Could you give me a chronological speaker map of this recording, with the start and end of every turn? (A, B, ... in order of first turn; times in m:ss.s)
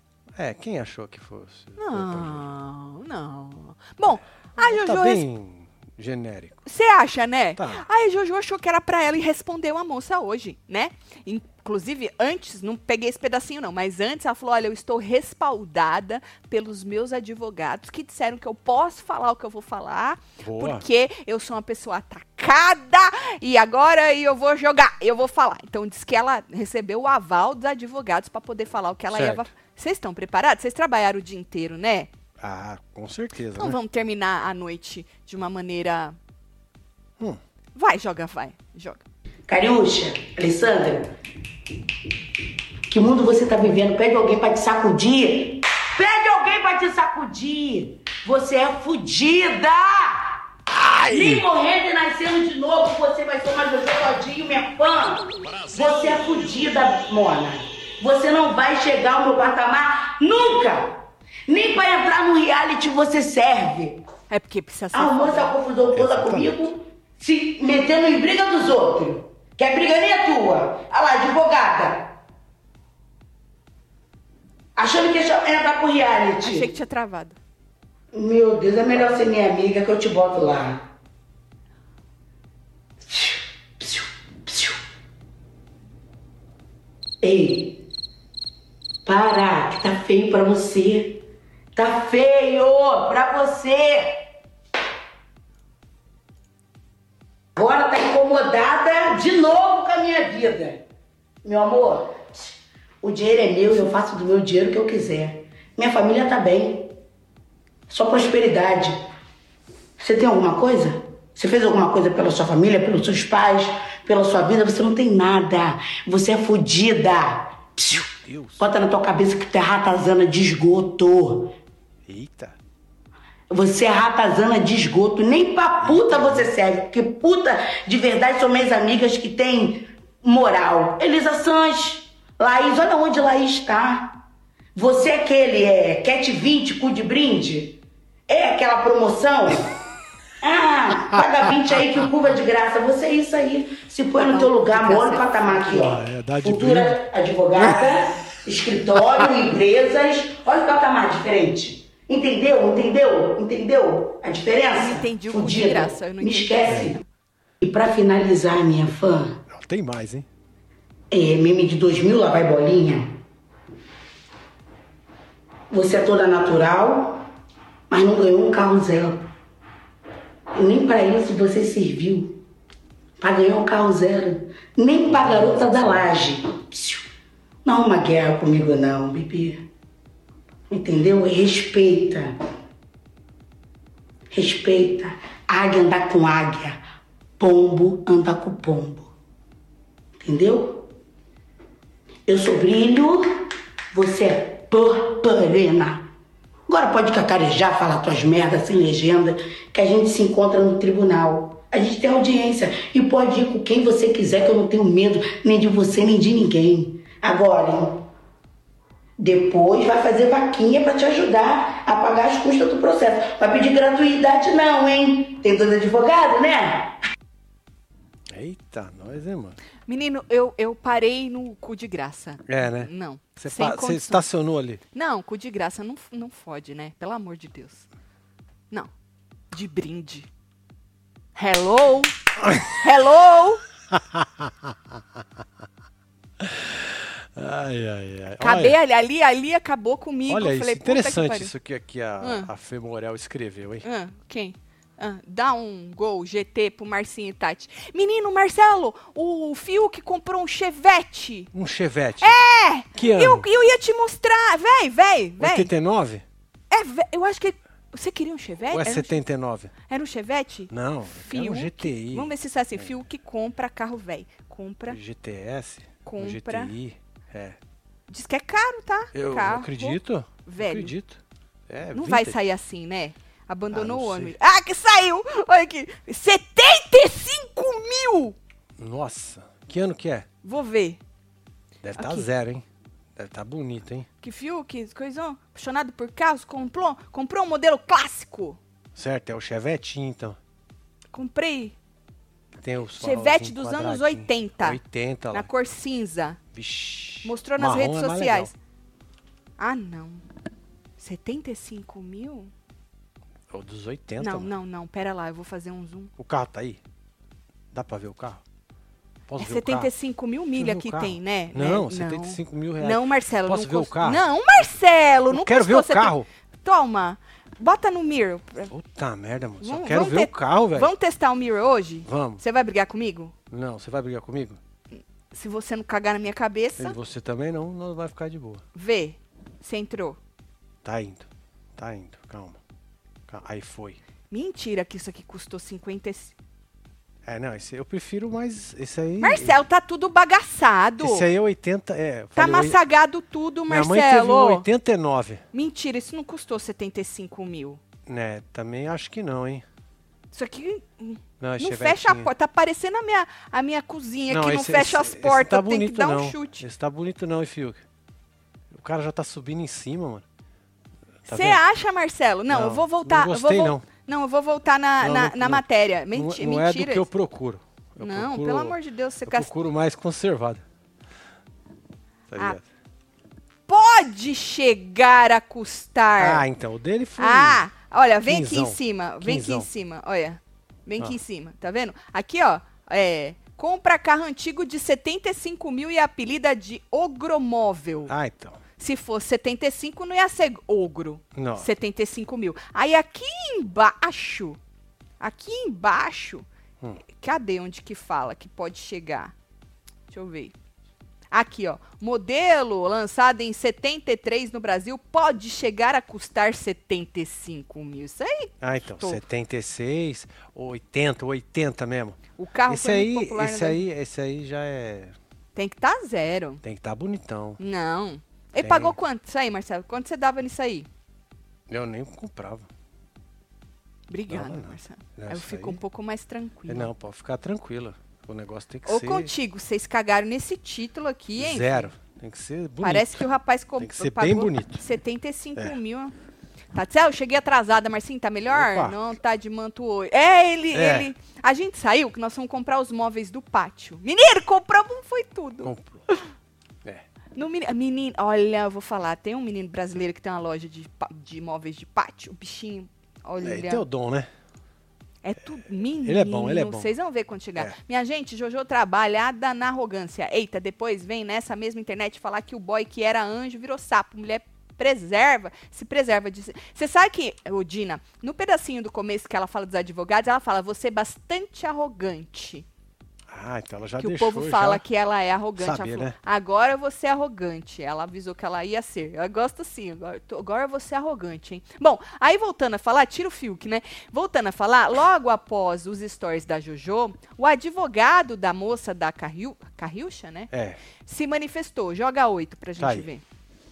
0:00.4-0:02.4 A
0:01.8-0:05.2 B
0:04.6-0:06.6 A
0:06.7-0:32.1 B
0:07.6-0:07.8 A
0:20.4-0:20.8 A
0:29.1-0:29.5 A
0:32.4-0:33.8 A
0:33.6-0:36.2 B
0:37.8-0:39.0 B
0:39.5-0:41.1 C
0:42.9-0:50.3 C
0:50.7-0:51.5 A
0:51.1-1:04.0 C
1:04.3-1:05.5 B
1:04.9-1:12.1 C
1:05.9-1:06.7 A
1:14.8-1:16.7 C
1:16.4-1:17.4 B
1:18.1-1:20.8 C
1:23.1-1:24.8 C
1:27.2-1:27.8 C
1:29.1-1:31.2 C
1:31.8-1:34.2 C
1:37.6-1:40.8 C
1:41.4-1:42.3 C
1:43.0-1:46.9 C
1:47.9-1:49.0 C
1:50.0-2:01.5 C
1:57.9-1:58.7 A
2:02.1-2:02.6 A
2:03.5-2:14.2 C
2:05.8-2:06.5 A
2:14.8-2:19.7 C
2:20.4-2:37.0 C
2:24.2-2:25.9 B
2:25.7-2:27.0 A
2:27.6-2:27.9 A
2:34.7-2:37.1 B
2:36.7-2:36.9 A
2:37.6-2:39.4 C
2:39.5-2:40.3 A
2:41.1-2:43.2 C
2:45.7-2:47.2 C
2:47.9-2:49.3 C
2:50.6-2:52.4 C
2:53.2-2:57.0 C
2:55.1-2:56.0 A
2:57.6-2:59.6 C
3:00.7-3:02.3 C
3:04.3-3:06.8 C
3:07.4-3:09.1 C
3:10.2-3:10.9 C
3:12.3-3:16.1 C
3:16.7-3:28.0 C
3:29.2-3:36.9 C
3:38.3-3:39.6 A
3:39.9-3:44.3 B
3:42.5-3:44.8 A
3:45.0-3:47.9 B
3:49.5-3:50.3 B
3:51.4-3:52.1 B
3:52.4-3:52.8 A
3:52.7-3:53.6 B
3:53.9-3:55.0 A
3:56.4-3:58.8 A
3:58.4-4:01.5 B
4:00.3-4:03.9 A
4:02.2-4:02.5 B
4:03.8-4:11.5 B
4:11.5-4:12.4 A
4:12.2-4:15.7 B
4:12.9-4:13.5 A
4:15.4-4:16.2 A
4:16.7-4:19.2 B
4:18.7-4:19.7 A
4:19.9-4:25.0 B
4:20.7-4:22.9 A
4:24.9-4:27.6 A
4:26.0-4:26.7 B
4:28.1-4:30.9 B
4:29.1-4:32.4 A
4:31.9-4:38.4 B
4:33.7-4:34.4 A
4:38.8-4:40.3 A
4:40.4-4:41.0 B
4:41.8-4:42.6 A
4:42.0-4:42.3 B
4:43.2-4:44.1 A
4:44.2-4:48.6 B
4:49.0-4:50.4 A
4:51.1-4:51.8 B
4:52.6-4:55.5 A
4:53.0-4:54.8 B
4:55.3-4:56.4 B
4:56.5-4:58.5 A
4:57.2-4:58.5 B
4:59.6-5:00.2 B
5:01.0-5:02.5 B
5:03.5-5:04.5 A
5:04.2-5:06.1 B
5:06.2-5:06.8 A
5:07.7-5:08.4 A
5:09.3-5:09.9 A
5:09.4-5:18.7 B
5:10.6-5:14.2 A
5:15.3-5:16.3 A
5:18.7-5:20.9 A
5:19.6-5:23.3 B
5:22.1-5:22.4 A
5:23.5-5:24.6 A
5:25.3-5:27.0 B
5:26.8-5:28.6 A
5:28.8-5:30.2 B
5:30.8-5:32.6 A
5:33.3-5:34.0 A
5:34.3-5:36.4 B
5:37.2-5:39.6 A
5:39.2-5:41.3 B
5:41.0-5:42.8 A
5:42.4-5:44.7 B
5:43.7-5:45.4 A
5:45.5-5:47.8 B
5:48.1-5:49.6 A
5:50.3-5:56.7 B
5:51.4-5:52.3 A
5:54.3-5:57.8 A
5:58.7-6:00.2 A
6:01.2-6:01.6 A
6:01.3-6:07.0 B
6:02.5-6:03.9 A
6:05.0-6:10.6 A
6:08.0-6:09.5 B
6:12.3-6:12.6 A
6:13.7-6:16.4 B
6:16.2-6:17.6 A
6:17.2-6:28.1 B
6:18.2-6:19.7 A
6:28.1-6:28.6 A
6:28.8-6:34.6 B
6:31.4-6:31.7 A
6:35.2-6:36.5 B
6:37.1-6:39.3 B
6:40.1-6:40.5 B
6:41.3-6:49.2 B
6:48.6-6:55.2 A
6:52.4-6:53.8 B
6:55.6-6:56.6 B
6:56.6-6:57.6 A
6:57.6-7:00.9 B
6:58.6-6:59.0 A
7:01.7-7:02.7 A
7:04.1-7:06.9 B
7:04.3-7:05.8 A
7:06.7-7:09.3 A
7:08.8-7:11.9 B
7:11.4-7:13.3 A
7:12.8-7:16.1 B
7:13.8-7:14.8 A
7:16.7-7:26.3 B
7:18.5-7:19.0 A
7:20.7-7:21.1 A
7:25.6-7:26.0 A
7:27.4-7:33.8 B
7:33.4-7:34.3 A
7:35.2-7:52.6 B
7:36.0-7:36.9 A
7:53.3-7:54.8 A
7:54.0-8:10.5 B
7:55.6-7:56.2 A
8:10.5-8:10.8 A
8:11.0-8:13.2 B
8:12.8-8:13.1 A